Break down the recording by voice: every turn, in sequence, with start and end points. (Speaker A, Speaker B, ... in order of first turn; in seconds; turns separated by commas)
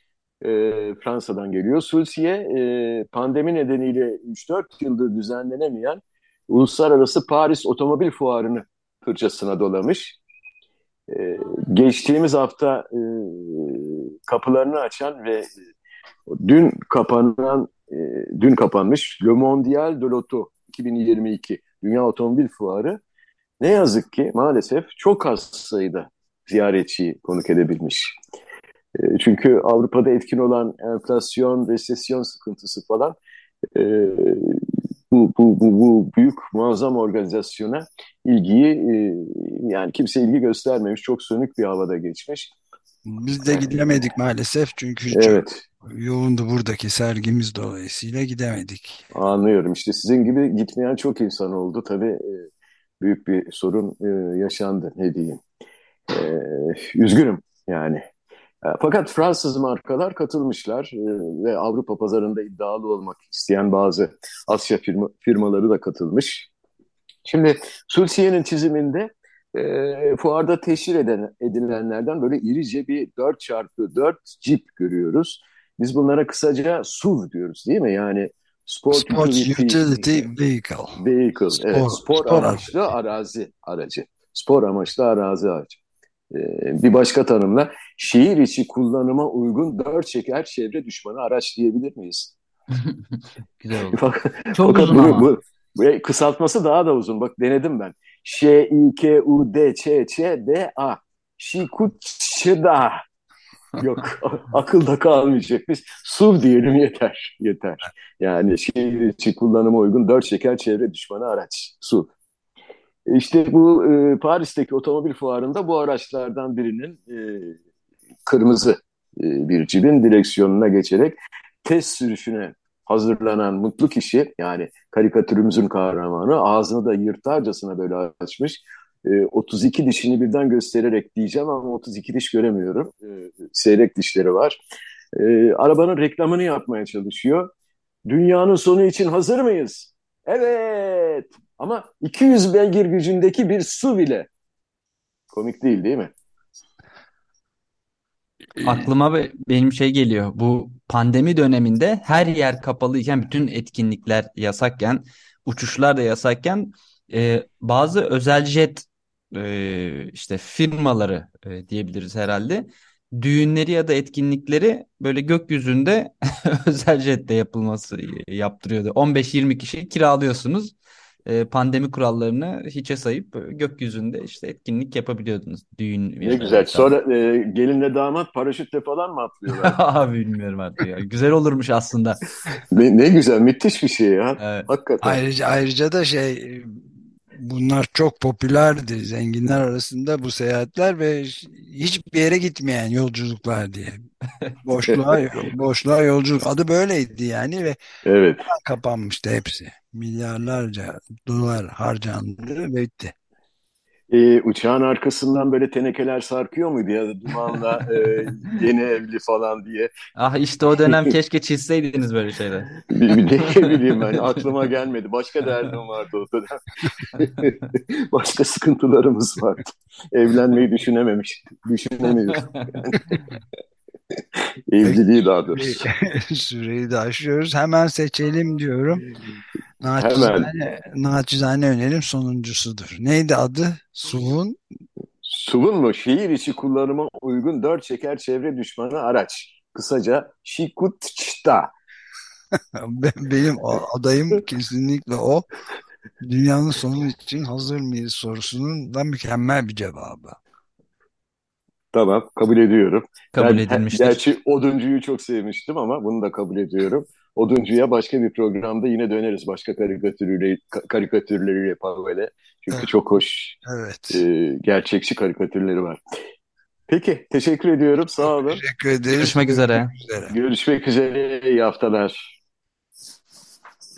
Speaker A: 0.4-10.2, Speaker A: 11.1-15.5, Speaker A: 16.3-23.0, Speaker A: 23.6-28.2, Speaker A: 28.9-33.2, Speaker A: 33.8-42.5, Speaker B: 43.1-49.1, Speaker A: 45.1-45.6, Speaker A: 49.1-52.5, Speaker A: 53.0-55.4, Speaker A: 56.1-58.0, Speaker A: 58.6-66.5, Speaker A: 67.3-80.3, Speaker B: 78.9-81.0, Speaker A: 81.0-85.8, Speaker B: 81.5-82.8, Speaker A: 86.3-92.3, Speaker A: 93.8-103.0, Speaker C: 94.5-95.3, Speaker A: 103.8-112.1, Speaker A: 113.1-117.6, Speaker A: 118.3-134.6, Speaker A: 135.2-137.5, Speaker A: 138.1-144.3, Speaker A: 145.3-146.1, Speaker C: 148.6-170.8, Speaker C: 171.3-177.0, Speaker A: 176.2-179.8, Speaker C: 179.5-182.2, Speaker A: 182.7-185.2, Speaker C: 184.4-184.7, Speaker B: 185.0-194.1, Speaker B: 194.6-197.8, Speaker A: 194.9-195.1, Speaker A: 198.0-198.5, Speaker B: 198.5-203.2, Speaker A: 204.1-209.9, Speaker C: 210.2-212.8, Speaker A: 210.8-211.1, Speaker A: 212.9-216.6, Speaker A: 217.1-223.2, Speaker A: 224.3-225.9, Speaker B: 224.8-229.1, Speaker B: 229.8-234.6, Speaker A: 230.0-230.5, Speaker A: 235.2-241.7, Speaker B: 242.7-245.5, Speaker B: 246.2-250.4, Speaker A: 251.9-266.0, Speaker C: 253.3-254.2, Speaker B: 263.6-264.2, Speaker A: 266.9-268.6, Speaker B: 268.2-270.3, Speaker C: 269.1-269.9, Speaker A: 270.3-272.3